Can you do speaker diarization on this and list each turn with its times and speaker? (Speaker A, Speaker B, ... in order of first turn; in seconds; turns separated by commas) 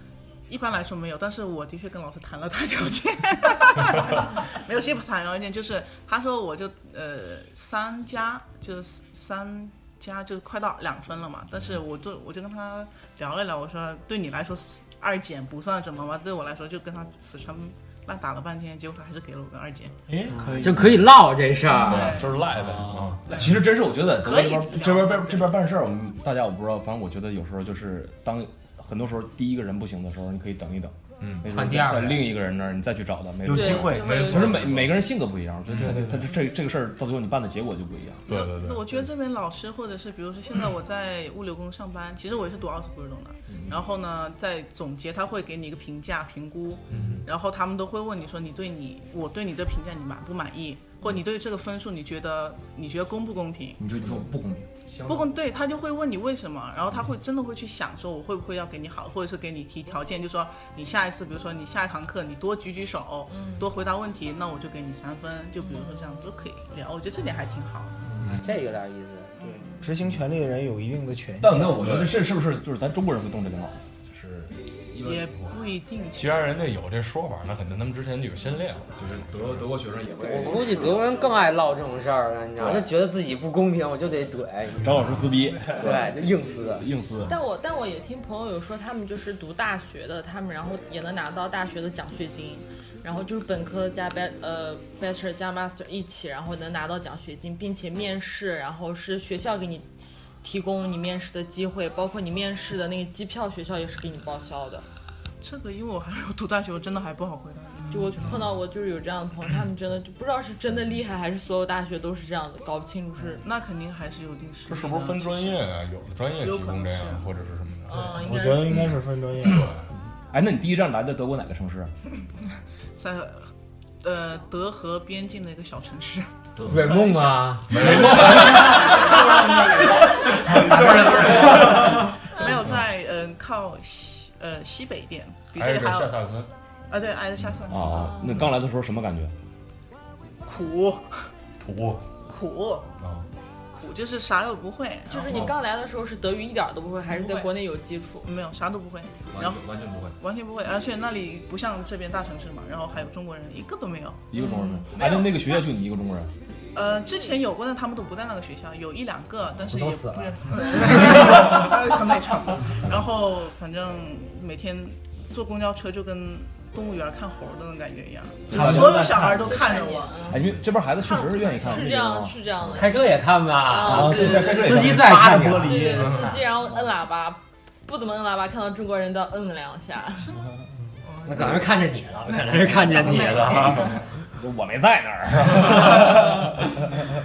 Speaker A: 0.5-20.0, Speaker B: 20.1-21.0, Speaker C: 20.4-22.1, Speaker A: 21.9-22.5, Speaker D: 21.9-23.4, Speaker C: 22.7-23.0, Speaker E: 23.3-38.3, Speaker A: 23.3-25.6, Speaker D: 31.2-31.5, Speaker C: 31.5-32.3, Speaker B: 33.5-34.2, Speaker F: 33.5-34.5, Speaker D: 33.5-34.9, Speaker D: 35.7-36.1, Speaker B: 35.8-36.4, Speaker D: 38.3-39.0, Speaker A: 38.3-54.1, Speaker E: 43.5-43.8, Speaker E: 46.9-47.2, Speaker E: 53.8-55.3, Speaker A: 55.0-68.0, Speaker F: 63.3-63.6, Speaker F: 65.6-66.3, Speaker C: 68.3-69.3, Speaker A: 69.4-69.7, Speaker B: 69.8-71.9, Speaker E: 71.4-75.3, Speaker D: 71.8-72.2, Speaker A: 75.0-76.7, Speaker D: 76.2-79.7, Speaker E: 79.0-81.0, Speaker C: 80.2-85.0, Speaker E: 84.8-87.3, Speaker C: 85.7-86.9, Speaker F: 87.2-99.9, Speaker F: 100.4-104.8, Speaker A: 105.4-108.6, Speaker F: 107.9-113.4, Speaker A: 113.4-115.6, Speaker D: 114.7-118.1, Speaker A: 116.4-117.3, Speaker F: 117.9-118.9, Speaker B: 118.2-119.7, Speaker D: 119.5-119.8, Speaker E: 120.3-121.9, Speaker A: 123.0-123.5, Speaker A: 124.0-126.3, Speaker C: 126.7-128.0, Speaker A: 126.9-127.3, Speaker D: 127.7-132.1, Speaker E: 127.8-129.1, Speaker A: 127.8-129.3, Speaker A: 130.0-136.2, Speaker D: 135.6-136.5, Speaker A: 136.9-138.1, Speaker E: 137.7-139.3, Speaker F: 138.0-138.3, Speaker A: 140.4-141.3, Speaker D: 141.6-142.1, Speaker A: 142.2-142.9, Speaker D: 143.0-143.3, Speaker A: 143.7-145.5, Speaker F: 145.1-148.3, Speaker A: 147.1-147.5, Speaker A: 148.2-154.3, Speaker E: 149.3-150.2, Speaker E: 154.3-156.3, Speaker F: 154.3-155.0, Speaker A: 155.0-155.3, Speaker A: 156.7-170.3, Speaker C: 159.7-161.0, Speaker E: 168.5-169.4, Speaker C: 168.5-169.3, Speaker F: 169.4-170.4, Speaker E: 170.3-172.4, Speaker A: 171.0-171.8, Speaker F: 171.6-174.9, Speaker C: 172.7-175.8, Speaker E: 173.8-175.3, Speaker B: 174.7-176.4, Speaker F: 175.6-180.4, Speaker A: 181.0-184.0, Speaker C: 181.2-184.0, Speaker E: 184.4-186.8